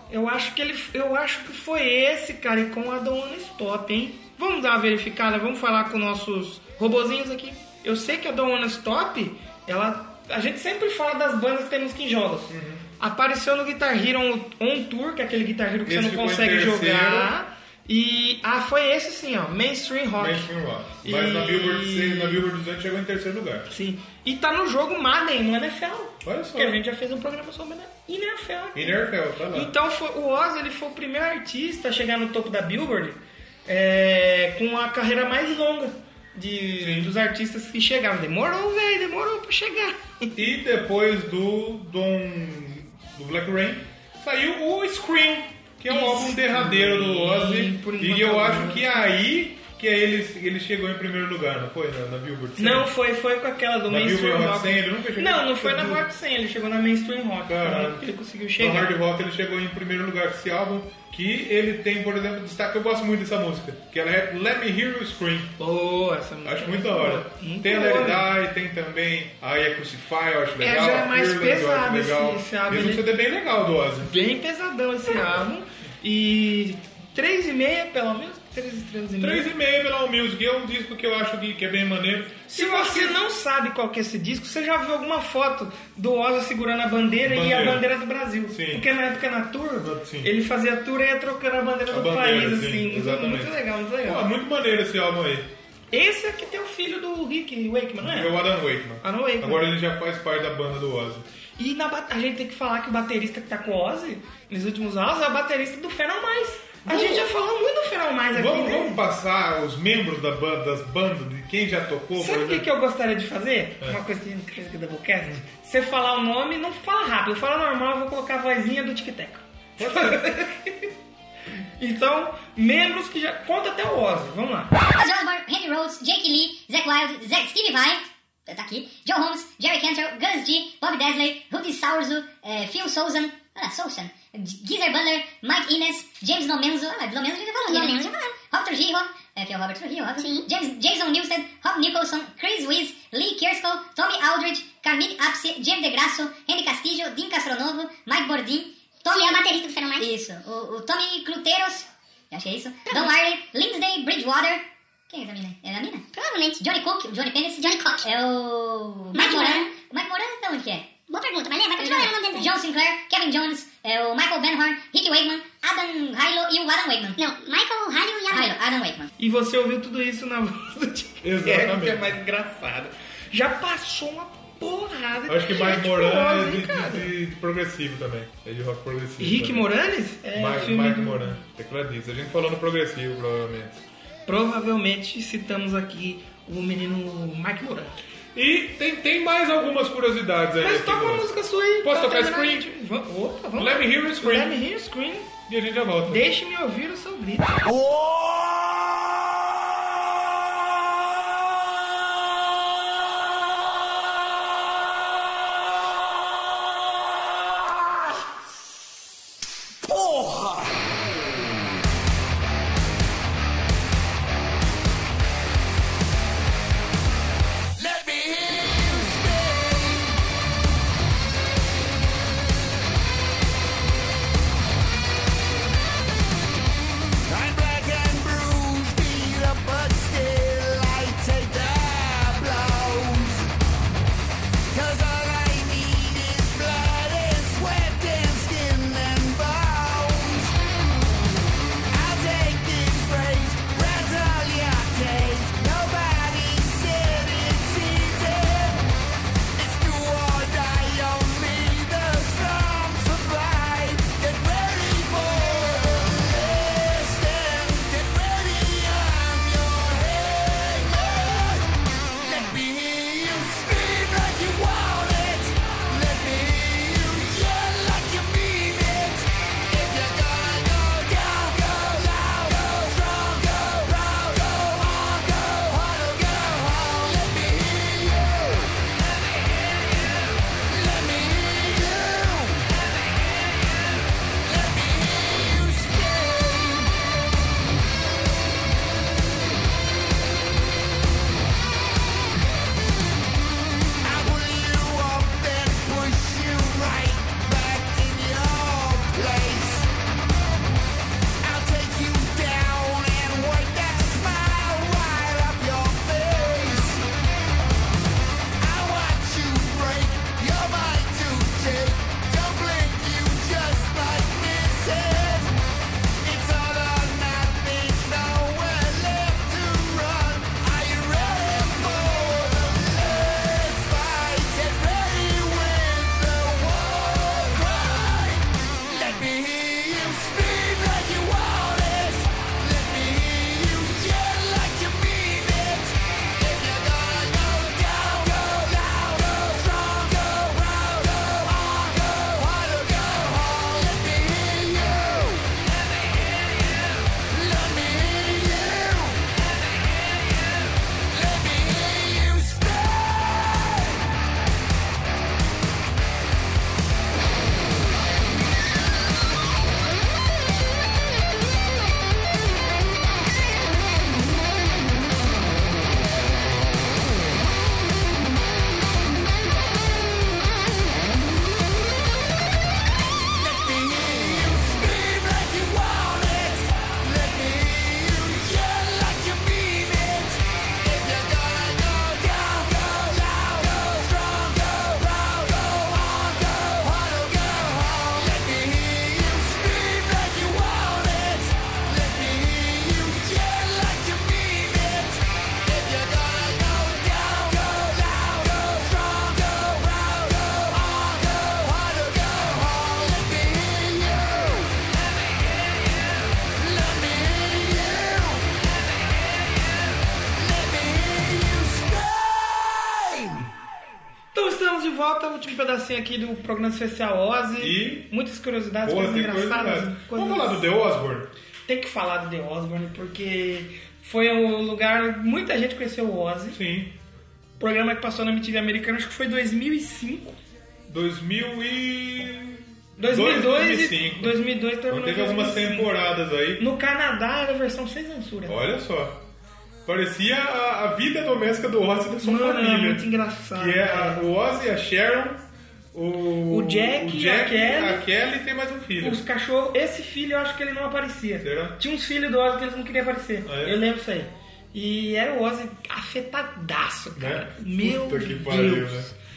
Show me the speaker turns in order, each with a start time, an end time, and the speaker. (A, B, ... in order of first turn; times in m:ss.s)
0:00.1-0:20.5 A
0:12.5-0:12.8 B
0:15.8-0:17.3 B
0:20.2-0:23.7 B
0:21.0-0:22.4 A
0:23.7-0:40.4 A
0:26.2-0:26.8 B
0:28.7-0:29.7 B
0:36.8-0:37.1 B
0:40.4-0:52.9 B
0:45.9-0:49.0 A
0:52.6-0:58.9 A
0:53.9-0:56.0 B
0:57.5-1:05.5 B
1:05.6-1:08.3 A
1:06.4-1:14.2 B
1:10.6-1:13.0 A
1:14.0-1:19.5 A
1:19.2-1:23.2 B
1:22.5-1:34.3 A
1:27.2-1:27.9 B
1:28.5-1:28.8 B
1:29.8-1:30.3 B
1:31.9-1:35.5 B
1:35.9-1:38.4 A
1:38.0-1:41.2 B
1:39.0-1:39.7 A
1:41.6-1:49.0 A
1:46.8-1:47.3 B
1:48.3-1:52.7 B
1:52.2-2:00.7 A
1:59.8-2:00.4 B
2:01.8-2:04.7 A
2:04.9-2:29.4 C
2:17.6-2:18.1 D
2:20.2-2:20.5 D
2:29.1-2:30.1 D
2:30.0-2:36.0 C
2:32.9-2:33.2 D
2:36.1-2:36.6 D
2:36.6-2:41.0 C
2:37.6-2:38.0 D
2:39.1-2:39.7 D
2:41.1-2:42.5 D
2:41.8-2:47.2 C
2:47.2-2:48.6 D
2:48.3-2:49.1 C
2:49.2-2:57.1 A
2:51.2-2:52.1 B
2:55.3-2:59.7 B
2:59.2-3:01.4 A
3:00.3-3:03.8 B
3:04.3-3:08.0 A
3:08.3-3:11.3 B
3:10.6-3:15.3 A
3:11.8-3:12.7 B
3:13.6-3:14.6 B
3:15.5-3:16.2 B
3:16.1-3:17.5 A
3:37.8-3:40.2 E
3:47.3-3:53.5 E
3:54.7-4:00.6 E
4:01.9-4:08.9 E
4:09.5-4:21.7 E
4:22.2-4:38.7 E
4:40.7-4:42.7 E
4:44.4-4:46.9 E
4:54.0-4:59.9 E
5:01.4-5:07.0 E
5:08.6-5:15.5 E
5:16.2-5:45.5 E
5:47.3-5:49.3 E
5:51.1-5:53.9 E
6:13.3-6:44.8 E
6:46.6-6:48.5 E
6:50.4-6:53.4 E
6:54.3-7:00.7 A
6:57.6-6:58.1 B
6:58.8-7:01.3 B
7:01.7-7:06.6 A
7:06.5-7:07.0 B
7:07.6-7:10.4 A
7:10.9-7:14.4 B
7:13.0-7:15.9 A
7:14.9-7:16.6 B
7:16.6-7:18.6 A
7:18.4-7:19.2 B
7:19.8-7:29.2 B
7:22.2-7:24.2 A
7:26.5-7:28.0 A
7:29.0-7:39.1 A
7:31.4-7:31.8 B
7:33.4-7:33.8 B
7:37.2-7:39.1 B